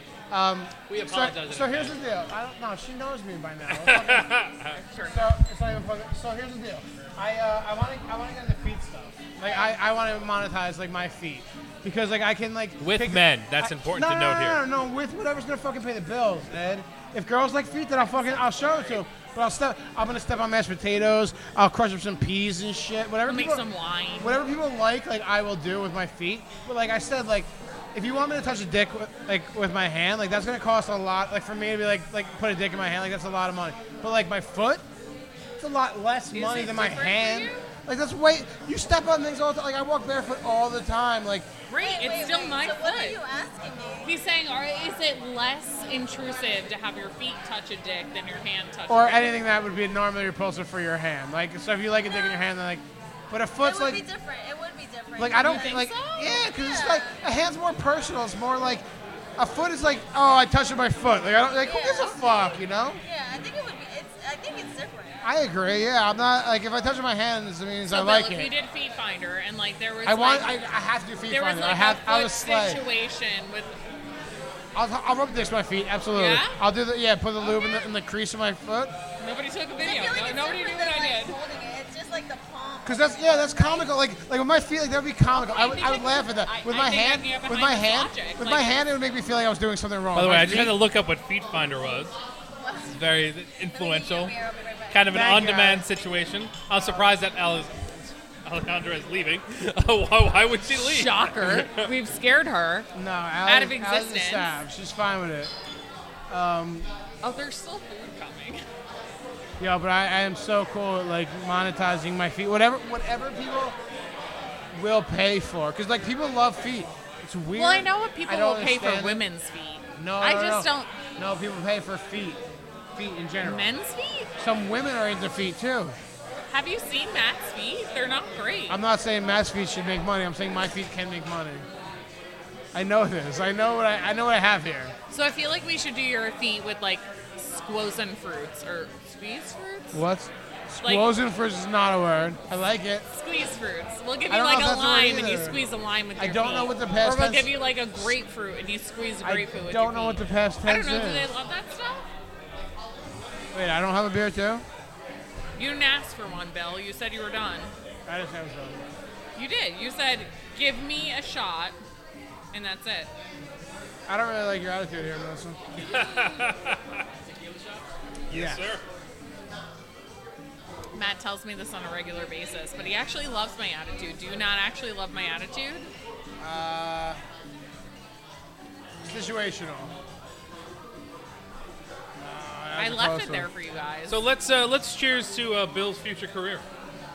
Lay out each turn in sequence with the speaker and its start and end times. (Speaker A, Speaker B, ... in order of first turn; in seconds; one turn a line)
Speaker A: 0.3-4.5
Speaker B: 0.9-1.9
Speaker B: 3.7-4.7
Speaker C: 4.7-5.3
Speaker A: 5.1-23.6
Speaker B: 12.8-14.6
Speaker C: 23.3-24.4
Speaker A: 24.2-34.8
Speaker A: 35.6-41.5
Speaker C: 36.3-37.6
Speaker C: 41.7-43.2
Speaker D: 41.8-44.2
Speaker C: 44.0-49.3
Speaker A: 48.9-54.0
Speaker D: 53.6-55.9
Speaker A: 55.2-58.9
Speaker C: 55.4-56.5
Speaker D: 56.5-57.1
Speaker A: 59.4-63.0
Speaker D: 61.6-65.2
Speaker A: 65.2-68.5
Speaker C: 67.9-70.7
Speaker A: 70.0-72.8
Speaker C: 71.3-73.8
Speaker A: 74.7-78.9
Speaker C: 76.1-76.5
Speaker C: 79.2-81.4
Speaker D: 79.8-83.9
Speaker A: 82.8-90.8
Speaker C: 85.3-88.8
Speaker B: 90.1-92.2
Speaker D: 92.6-95.2
Speaker B: 92.9-94.3
Speaker B: 94.9-101.9
Speaker A: 95.1-95.9
Speaker C: 100.7-102.9
Speaker A: 102.9-105.5
Speaker C: 103.4-104.5
Speaker A: 106.3-106.9
Speaker C: 107.2-108.6
Speaker A: 109.6-113.8
Speaker A: 114.7-119.2
Speaker C: 117.5-120.9
Speaker A: 120.0-122.4
Speaker A: 122.9-123.7
Speaker C: 123.4-124.3
Speaker A: 124.4-126.0
Speaker C: 126.5-128.8
Speaker A: 128.7-131.7
Speaker A: 132.7-134.9
Speaker C: 135.1-140.0
Speaker A: 139.9-143.0
Speaker C: 140.8-141.1
Speaker C: 143.1-152.1
Speaker A: 144.3-145.6
Speaker A: 146.2-147.5
Speaker A: 149.2-151.3
Speaker A: 153.5-154.6
Speaker C: 155.6-157.7
Speaker A: 158.1-158.8
Speaker C: 159.3-161.8
Speaker C: 162.5-163.1
Speaker A: 164.1-165.6
Speaker B: 165.8-167.1
Speaker A: 168.3-168.7
Speaker B: 168.3-168.8
Speaker C: 170.9-175.9
Speaker A: 176.4-177.2
Speaker A: 179.0-179.9
Speaker A: 182.2-183.5
Speaker C: 182.8-184.2
Speaker B: 184.1-186.6